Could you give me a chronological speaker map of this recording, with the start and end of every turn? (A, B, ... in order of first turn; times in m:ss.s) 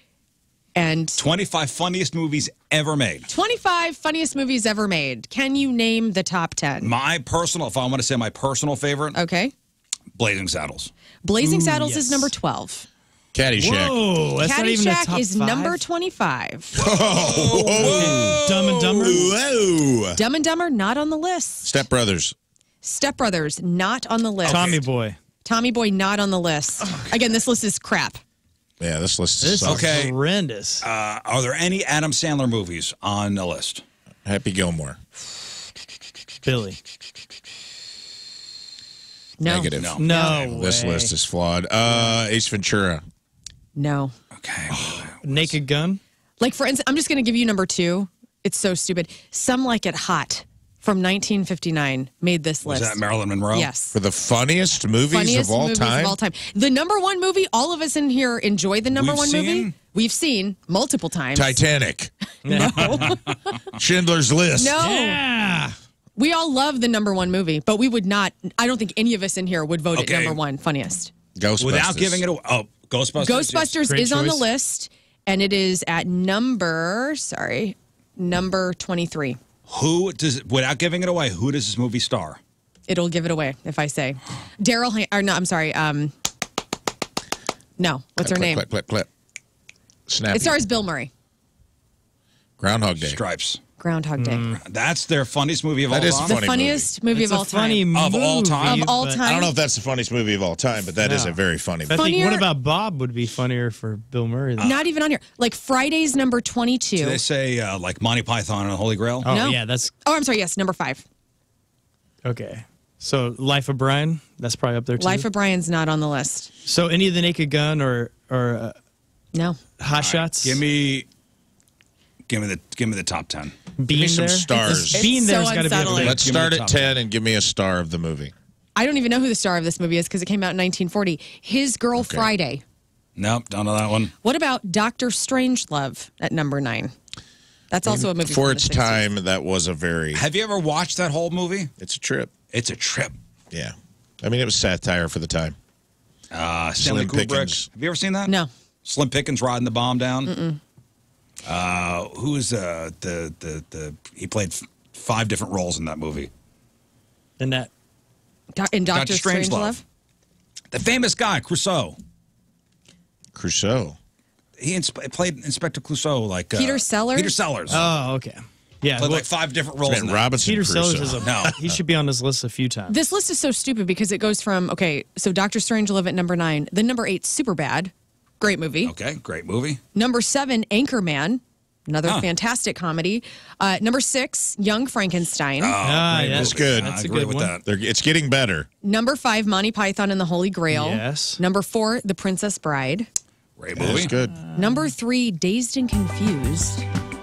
0:00.8-0:01.2 A
0:01.2-0:03.3 B
0:03.3-0:06.9 A
0:06.8-0:09.2 B
0:09.1-0:09.5 A
0:10.1-0:10.9 B
0:11.2-0:12.9 A
0:11.4-0:12.3 C
0:13.3-0:14.0 D
0:13.6-0:15.8 C
0:14.4-0:16.8 A
0:16.7-0:20.2 D
0:16.8-0:19.0 B
0:18.0-0:19.3 C
0:20.1-0:21.8 A
0:21.6-0:22.3 D
0:22.8-0:24.8 A
0:24.4-0:24.8 B
0:24.5-0:25.2 C
0:25.4-0:28.2 A
0:28.8-0:29.9 D
0:29.4-0:30.8 C
0:29.6-0:30.1 B
0:30.8-0:33.8 B
0:34.2-0:35.0 D
0:36.4-0:36.8 C
0:39.4-0:40.4 A
0:39.4-0:43.0 D
0:39.8-0:40.0 B
0:40.0-0:41.1 C
0:43.8-0:44.1 A
0:44.3-0:45.6 B
0:45.2-0:46.0 C
0:46.4-0:54.0 A
0:52.6-0:53.7 B
0:53.9-0:56.2 D
0:55.1-1:01.6 A
0:58.9-0:59.8 B
1:01.3-1:02.9 D
1:02.5-1:02.7 C
1:02.5-1:03.2 A
1:02.7-1:03.6 B
1:03.7-1:04.8 D
1:04.6-1:05.2 A
1:04.8-1:05.7 C
1:06.2-1:11.1 A
1:09.9-1:10.4 B
1:11.4-1:12.2 D
1:11.6-1:13.8 B
1:13.2-1:19.4 A
1:13.8-1:14.4 C
1:19.7-1:22.4 B
1:22.9-1:26.1 A
1:27.8-1:28.6 A
1:28.2-1:29.1 D
1:30.1-1:30.6 D
1:30.3-1:31.1 A
1:32.6-1:33.2 D
1:33.0-1:33.6 B
1:33.8-1:34.5 A
1:34.2-1:34.6 C
1:34.6-1:36.4 B
1:35.9-1:36.9 D
1:36.2-1:37.9 A
1:37.1-1:39.2 C
1:37.9-1:38.9 B
1:38.6-1:39.5 A
1:39.2-1:42.1 D
1:41.0-1:41.4 C
1:41.9-1:42.4 A
1:41.9-1:44.7 C
1:44.6-1:44.8 B
1:44.6-1:47.2 A
1:47.0-1:49.3 B
1:49.3-1:49.9 C
1:49.3-1:51.0 A
1:52.2-1:55.3 C
1:55.0-1:56.5 A
1:56.6-1:58.8 C
1:59.3-1:59.6 A
1:59.8-2:00.6 C
1:59.9-2:01.1 B
2:02.3-2:03.6 B
2:03.8-2:06.1 C
2:03.9-2:05.1 D
2:04.9-2:06.2 A
2:05.9-2:08.3 D
2:06.0-2:07.0 B
2:08.8-2:12.6 A
2:12.0-2:12.3 D
2:13.2-2:14.1 B
2:14.2-2:16.9 A
2:17.7-2:19.1 A
2:17.8-2:20.2 D
2:20.1-2:21.7 B
2:21.8-2:22.3 D
2:22.5-2:23.1 B
2:23.5-2:25.6 D
2:26.3-2:30.3 B
2:26.8-2:27.7 D
2:30.2-2:30.6 A
2:31.4-2:36.3 B
2:37.4-2:37.7 C
2:38.6-2:39.8 A
2:38.9-2:39.8 B
2:40.7-2:42.0 B
2:43.3-2:44.0 D
2:44.6-2:47.8 B
2:46.5-2:47.4 A
2:47.7-2:49.2 C
2:49.0-2:50.3 B
2:49.8-2:51.8 D
2:50.4-2:52.9 C
2:51.2-2:51.6 B
2:52.9-2:58.9 A
2:58.8-2:59.8 B
2:59.9-3:05.8 A
3:05.6-3:07.6 B
3:05.8-3:07.5 C
3:06.2-3:06.9 D
3:07.6-3:08.7 D
3:08.8-3:13.1 A
3:10.7-3:11.4 C
3:13.6-3:14.1 B
3:13.7-3:14.4 D
3:14.5-3:14.9 C
3:14.5-3:16.8 A